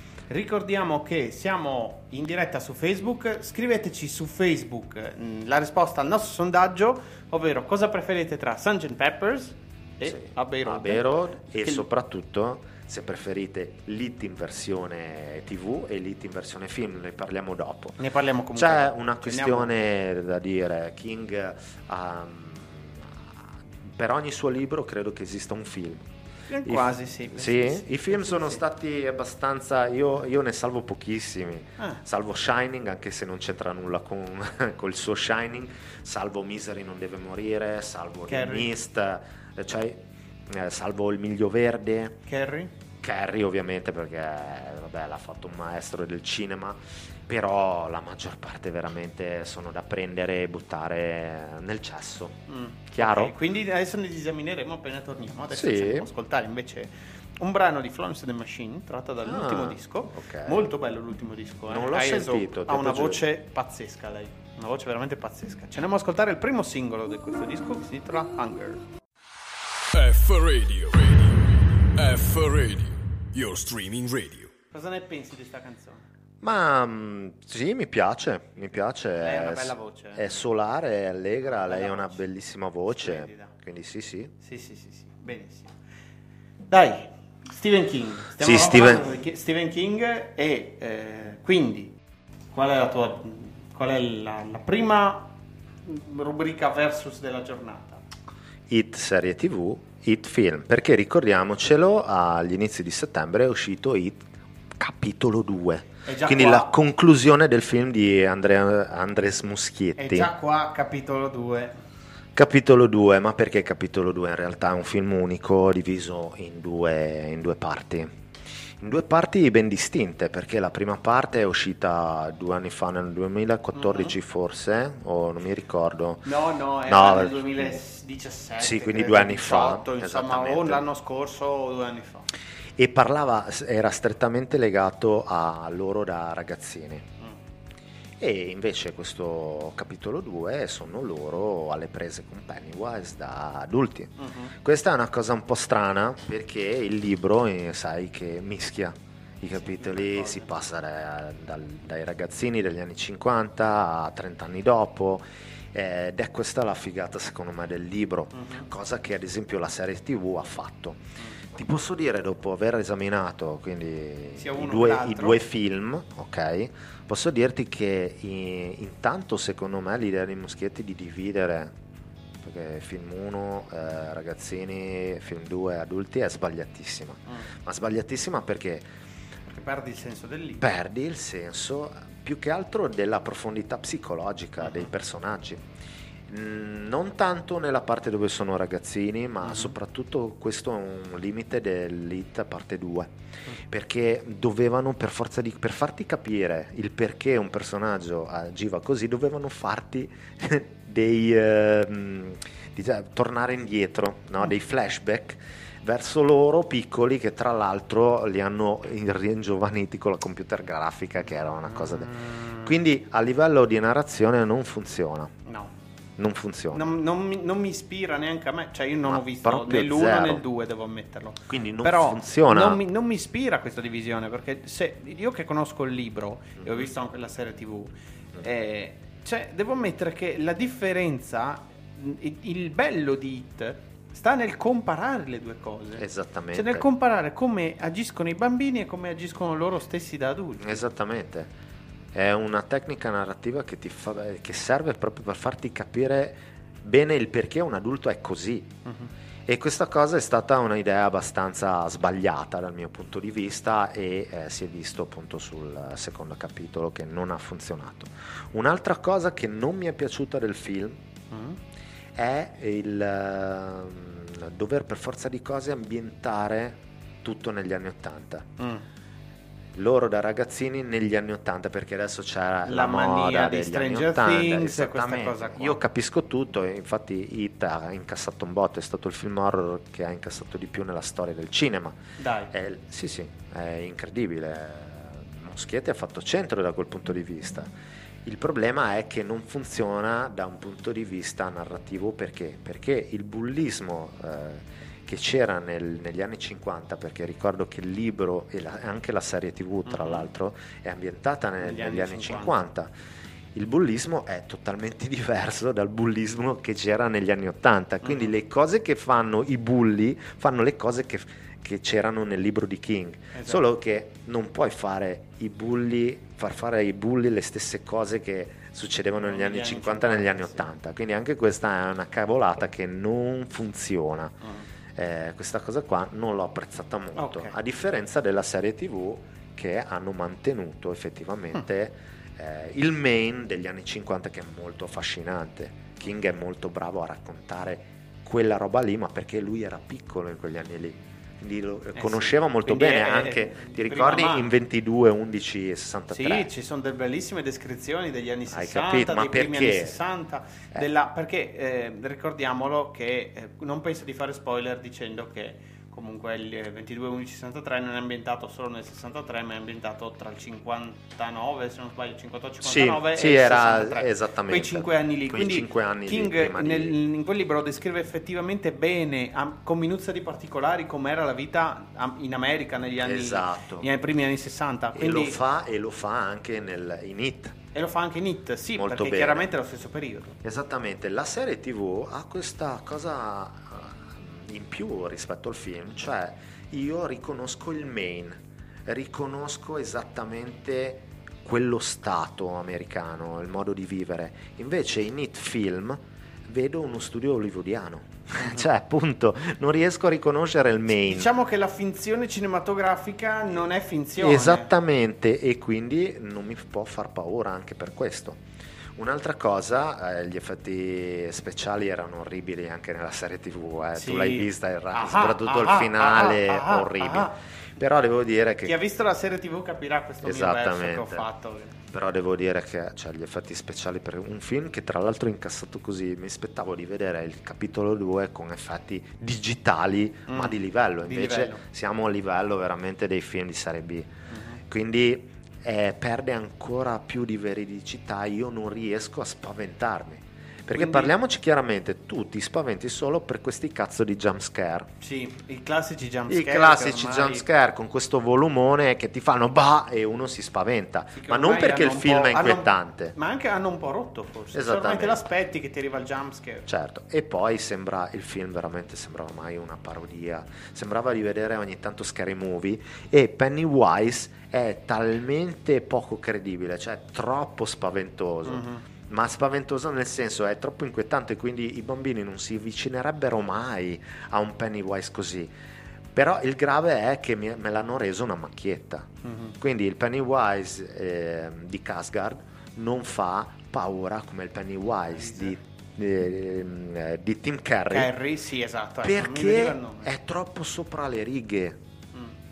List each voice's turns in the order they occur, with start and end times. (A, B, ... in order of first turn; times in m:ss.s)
0:00.3-0:11.9 A
0:10.1-0:18.0 B
0:18.0-0:19.7 A
0:18.6-0:26.1 B
0:26.5-0:28.6 A
0:26.6-0:42.2 B
0:38.3-0:38.7 A
0:42.3-0:42.7 A
0:43.0-0:53.3 B
0:52.5-1:08.8 A
0:55.5-0:56.1 B
0:59.2-1:00.7 B
1:01.7-1:03.2 B
1:09.9-1:14.5 C
1:14.7-1:16.0 A
1:16.4-1:24.3 B
1:19.2-1:20.3 A
1:21.6-1:22.2 A
1:23.0-1:23.5 A
1:24.4-1:25.8 A
1:26.7-1:32.0 A
1:28.4-1:29.1 B
1:32.5-1:38.0 A
1:38.7-1:44.3 B
1:44.8-1:50.3 B
1:46.0-1:46.7 A
1:50.0-1:51.8 A
1:52.4-1:58.1 B
1:58.8-2:06.3 B
2:03.8-2:04.1 A
2:06.2-2:12.3 A
2:06.9-2:07.8 B
2:08.6-2:10.8 B
2:12.8-2:17.1 B
2:18.2-2:41.0 B
2:24.2-2:24.5 A
2:29.6-2:30.5 A
2:38.3-2:38.7 A
2:41.5-2:51.8 B
2:44.4-2:45.4 A
2:52.4-2:58.9 B
2:59.5-3:00.7 A
3:00.6-3:05.6 B
3:04.6-3:04.9 A
3:06.3-3:13.1 B
3:09.4-3:09.7 A
3:13.6-3:35.3 B
3:31.7-3:32.7 A
3:35.5-3:35.7 A
3:36.2-3:36.9 B
3:36.7-4:00.8 A
3:39.0-3:40.4 B
3:41.5-3:42.8 B
3:56.0-3:56.9 B
4:00.6-4:01.5 B
4:02.1-4:08.8 B
4:09.5-4:21.0 B
4:21.3-4:21.6 A
4:22.2-4:28.5 B
4:28.6-4:28.8 A
4:29.8-4:42.0 B
4:32.7-4:35.8 A
4:42.2-4:42.5 A
4:42.5-4:47.7 B
4:48.2-5:02.9 B
4:59.9-5:00.3 A
5:01.6-5:02.6 A
5:03.6-5:24.4 B
5:08.0-5:08.3 A
5:13.3-5:13.6 A
5:19.2-5:20.7 A
5:25.0-5:46.5 B
5:27.2-5:27.6 A
5:42.0-5:44.5 A
5:46.1-6:15.4 A
5:48.5-5:50.0 B
6:02.6-6:07.0 B
6:13.0-6:13.9 B
6:15.0-6:17.6 B
6:17.7-6:20.4 A
6:18.8-6:19.5 B
6:20.4-6:41.3 B
6:40.9-6:44.7 A
6:44.2-6:48.4 B
6:49.0-6:58.8 B
6:54.0-6:57.4 A
6:58.6-7:01.8 A
7:00.2-7:01.3 B
7:01.9-7:14.1 B
7:10.3-7:11.6 A
7:14.3-7:14.6 A
7:14.6-7:24.9 B
7:20.7-7:21.1 A
7:25.0-7:27.4 A
7:26.3-7:33.2 B
7:31.2-7:36.7 A
7:34.5-7:35.2 B
7:36.7-7:55.5 B
7:48.5-7:48.8 A
7:56.1-8:08.1 B
7:59.2-7:59.6 A
8:05.2-8:05.6 A
8:07.9-8:10.1 A
8:09.0-8:11.8 B